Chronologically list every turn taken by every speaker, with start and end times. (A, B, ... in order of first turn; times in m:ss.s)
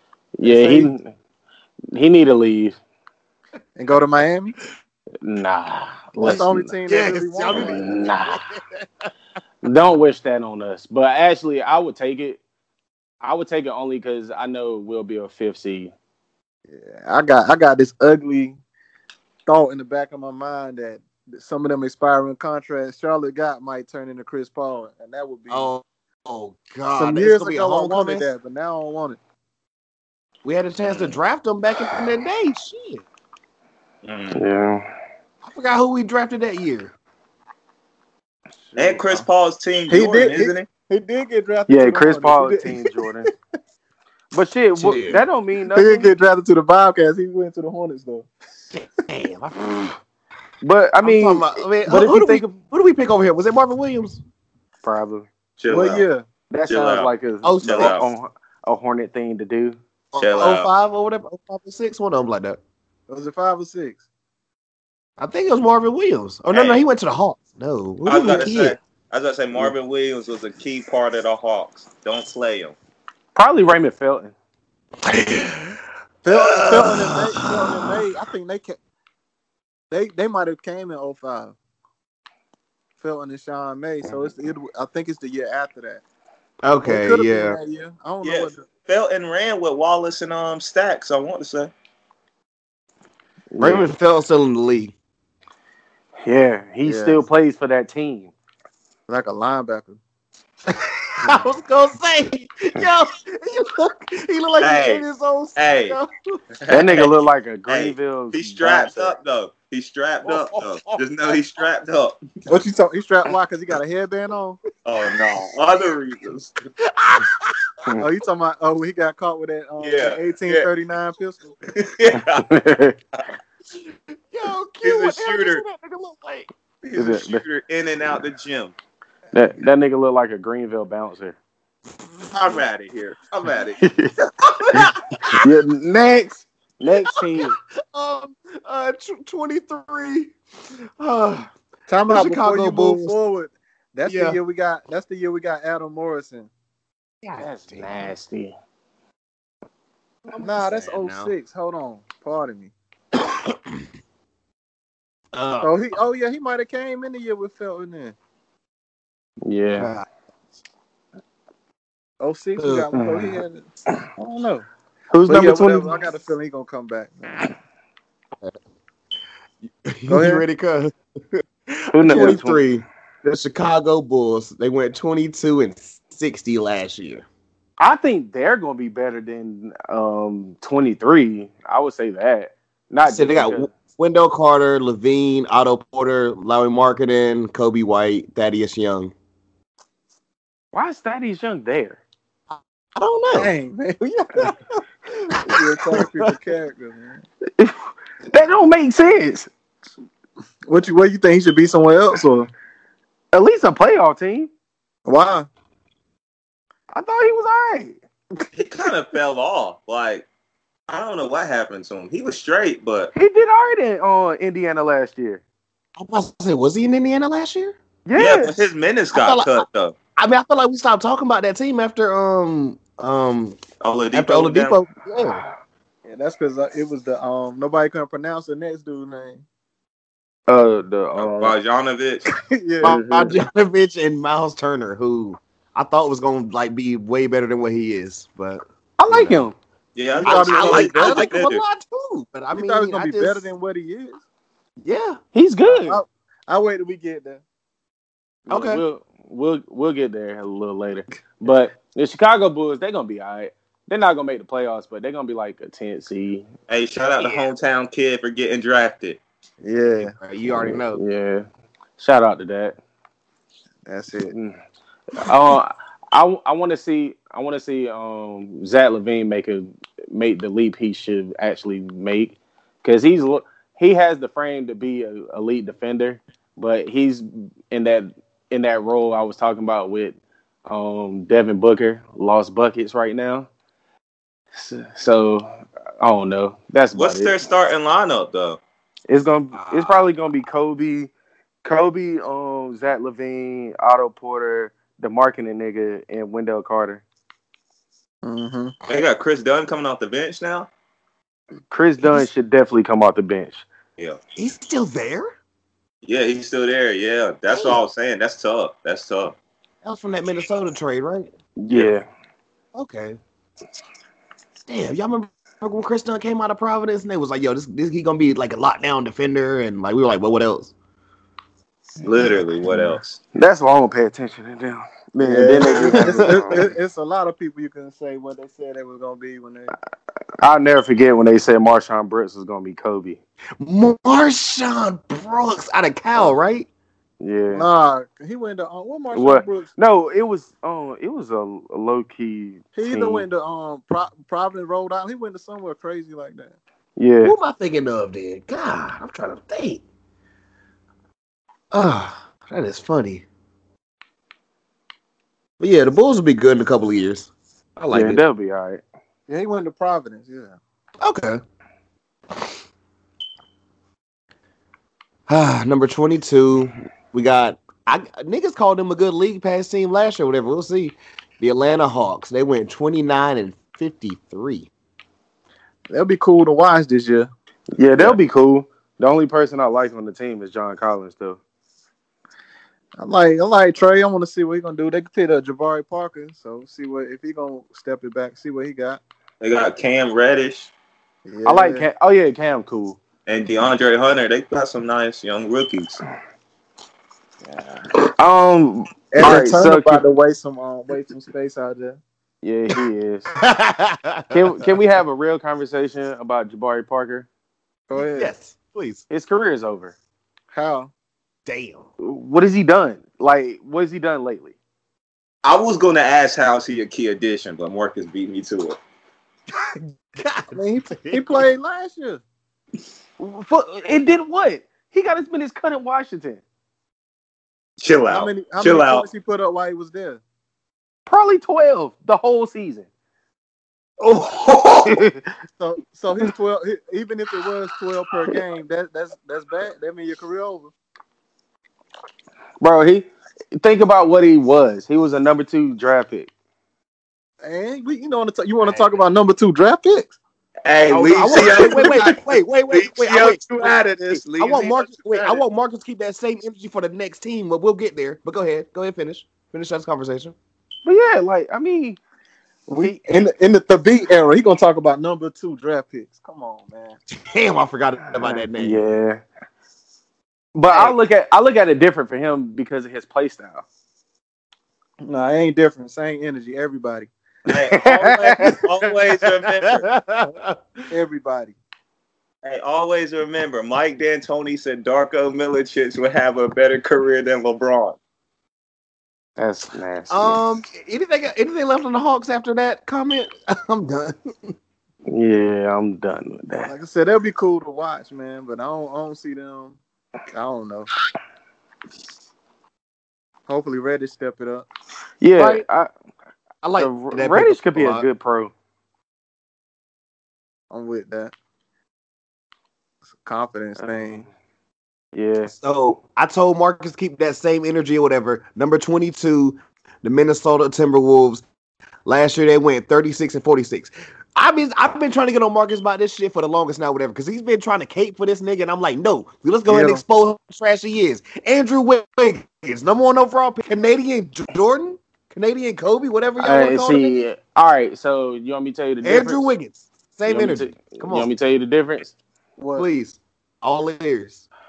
0:00.4-0:01.1 A
0:00.4-0:00.9 B
0:01.9-0:02.8 A
0:03.8-0:04.6 B
0:05.2-0:06.7 A
0:06.2-0:07.9 B
0:06.3-0:09.1 C
0:07.5-0:08.4 A
0:09.6-0:12.4 A
0:13.2-0:15.9 A
0:16.7-0:18.6 B
0:19.4-0:25.7 B
0:25.5-0:28.3 C
0:26.9-0:29.2 B
0:30.4-0:33.0 C
0:30.8-0:31.2 D
0:34.0-0:34.4 D
0:34.3-0:34.9 A
0:35.4-0:36.9 C
0:38.8-0:40.7 D
0:38.8-0:39.2 B
0:39.9-0:43.0 B
0:41.7-0:43.3 A
0:44.3-0:46.1 A
0:44.8-0:45.2 C
0:45.7-0:48.3 B
0:48.7-0:49.9 C
0:50.6-0:52.6 A
0:51.0-0:54.2 C
0:54.8-0:55.3 A
0:55.6-0:56.1 D
0:55.7-0:56.2 B
0:56.5-0:59.8 A
0:56.7-0:57.1 D
0:57.4-0:57.9 C
0:57.6-0:58.1 D
1:00.1-1:02.6 C
1:00.2-1:00.7 D
1:03.1-1:04.0 B
1:05.2-1:08.8 C
1:06.5-1:06.8 D
1:08.0-1:12.8 D
1:13.4-1:14.3 A
1:15.0-1:15.8 C
1:16.2-1:18.8 B
1:16.3-1:17.9 C
1:19.9-1:21.6 B
1:23.0-1:26.0 B
1:26.6-1:27.6 C
1:26.8-1:28.6 B
1:28.2-1:31.7 D
1:33.5-1:33.9 A
1:33.6-1:34.9 C
1:36.2-1:38.3 A
1:36.8-1:37.2 B
1:39.1-1:40.0 B
1:40.7-1:46.4 C
1:44.6-1:45.0 D
1:45.6-1:46.0 D
1:46.6-1:47.1 D
1:46.7-1:49.2 A
1:47.7-1:52.2 D
1:50.2-1:51.0 C
1:52.5-1:54.6 B
1:54.8-1:56.6 D
1:56.9-1:57.7 C
1:58.0-2:01.6 B
1:59.8-2:00.7 D
2:01.7-2:02.5 D
2:02.2-2:03.0 A
2:03.7-2:06.5 C
2:04.8-2:05.6 D
2:06.8-2:08.8 D
2:07.0-2:07.4 A
2:09.3-2:11.4 A
2:12.3-2:13.8 D
2:13.8-2:14.1 A
2:14.4-2:15.4 C
2:14.7-2:17.6 A
2:17.1-2:20.4 C
2:21.0-2:21.5 C
2:21.9-2:26.5 B
2:22.1-2:23.1 C
2:24.1-2:24.4 C
2:27.2-2:28.1 C
2:27.4-2:28.6 A
2:30.3-2:31.3 C
2:30.3-2:32.7 B
2:33.3-2:33.8 C
2:35.3-2:35.7 C
2:35.6-2:38.1 B
2:39.4-2:39.9 A
2:39.8-2:40.0 C
2:42.2-2:43.6 B
2:42.6-2:42.9 C
2:42.9-2:43.3 A
2:44.2-2:44.7 B
2:45.1-2:46.0 A
2:45.3-2:47.5 B
2:49.9-2:57.2 C
2:50.1-2:50.4 B
2:51.9-2:52.6 A
2:52.1-2:52.4 B
2:57.8-3:03.7 A
3:03.0-3:09.1 C
3:10.7-3:12.0 A
3:12.5-3:13.5 C
3:13.3-3:14.6 B
3:15.3-3:16.1 C
3:15.4-3:17.2 B
3:17.6-3:19.5 A
3:20.7-3:22.5 B
3:23.3-3:24.5 A
3:25.0-3:25.5 B
3:26.9-3:28.0 A
3:28.5-3:30.3 D
3:30.9-3:33.1 D
3:33.1-3:35.4 A
3:36.0-3:37.8 C
3:38.0-3:38.7 A
3:38.2-3:40.0 D
3:39.1-3:43.6 C
3:43.8-3:44.8 D
3:44.1-3:45.4 C
3:46.0-3:49.4 B
3:50.5-3:51.6 A
3:51.2-3:52.2 D
3:52.3-3:53.0 B
3:52.8-3:59.5 C
3:59.0-3:59.6 A
4:00.0-4:01.6 D
4:00.2-4:01.4 B
4:00.2-4:03.5 C
4:02.5-4:04.2 B
4:04.8-4:05.2 C
4:05.3-4:06.0 A
4:05.7-4:07.4 B
4:08.5-4:16.5 A
4:08.5-4:08.8 C
4:16.7-4:19.2 D
4:19.6-4:20.1 B
4:20.0-4:21.0 C
4:20.6-4:21.4 A
4:22.0-4:22.8 A
4:23.9-4:24.3 B
4:25.1-4:43.5 A
4:44.6-4:47.4 A
4:47.0-4:48.6 D
4:49.1-4:51.1 A
4:49.5-4:50.0 C
4:51.6-4:57.0 A
4:58.2-4:58.7 B
4:58.9-5:00.7 D
5:01.7-5:03.7 A
5:04.4-5:05.3 C
5:06.0-5:09.4 D
5:07.5-5:07.8 C
5:09.8-5:11.3 C
5:11.6-5:12.0 A
5:12.7-5:13.2 C
5:14.7-5:20.7 C
5:22.0-5:23.2 D
5:23.4-5:26.6 A
5:25.2-5:29.7 B
5:25.7-5:26.6 C
5:30.4-5:33.2 A
5:33.6-5:36.7 C
5:37.2-5:37.7 A
5:37.5-5:39.7 B
5:39.1-5:43.3 A
5:42.7-5:46.6 B
5:47.0-5:47.4 A
5:47.2-5:49.8 C
5:51.7-5:53.2 C
5:55.6-5:58.2 C
5:57.9-5:58.8 A
5:59.3-6:00.6 B
6:01.0-6:01.4 C
6:05.3-6:14.7 C
6:15.9-6:17.3 B
6:17.8-6:21.4 A
6:23.0-6:29.0 B
6:29.4-6:30.7 D
6:31.3-6:31.9 B
6:31.4-6:33.0 A
6:33.3-6:36.0 D
6:38.2-6:40.0 A
6:39.1-6:42.0 B
6:42.4-6:43.3 A
6:43.4-6:44.7 C
6:44.3-6:47.3 A
6:47.9-6:48.3 B
6:48.0-6:49.0 C
6:49.1-6:50.0 A
6:50.5-6:50.9 B
6:51.4-6:51.9 C
6:52.0-6:54.5 A
6:55.4-6:58.8 D
6:59.5-7:01.4 C
7:00.5-7:02.2 B
7:03.2-7:06.4 A
7:07.8-7:09.0 D
7:08.1-7:10.2 B
7:11.1-7:12.9 A
7:14.0-7:15.0 D
7:14.9-7:15.2 A
7:15.6-7:20.7 B
7:22.6-7:26.3 A
7:27.4-7:30.1 B
7:30.6-7:35.4 D
7:30.9-7:33.7 C
7:31.3-7:32.0 B
7:34.4-7:40.4 C
7:40.8-7:42.0 A
7:42.7-7:47.0 B
7:47.2-7:48.8 C
7:48.6-7:49.2 A
7:50.6-7:53.6 A
7:55.0-7:57.1 B
7:57.5-7:59.9 D
7:57.7-7:58.6 A
7:59.7-8:00.6 C
8:00.9-8:01.6 B
8:02.4-8:08.0 D
8:09.4-8:10.4 A
8:10.1-8:14.5 C
8:15.1-8:16.7 A
8:16.6-8:19.8 B
8:20.3-8:20.9 B
8:23.5-8:24.7 B
8:25.2-8:25.9 A
8:25.4-8:25.6 C
8:26.6-8:28.0 C
8:26.8-8:28.5 A
8:30.7-8:31.3 B
8:33.2-8:34.3 B
8:35.1-8:35.5 A
8:35.5-8:41.4 C
8:42.0-8:57.2 C
8:49.7-8:50.0 B
8:56.4-8:59.5 A
8:59.0-9:01.3 C
9:00.3-9:02.2 A
9:02.6-9:02.9 B
9:02.8-9:04.4 C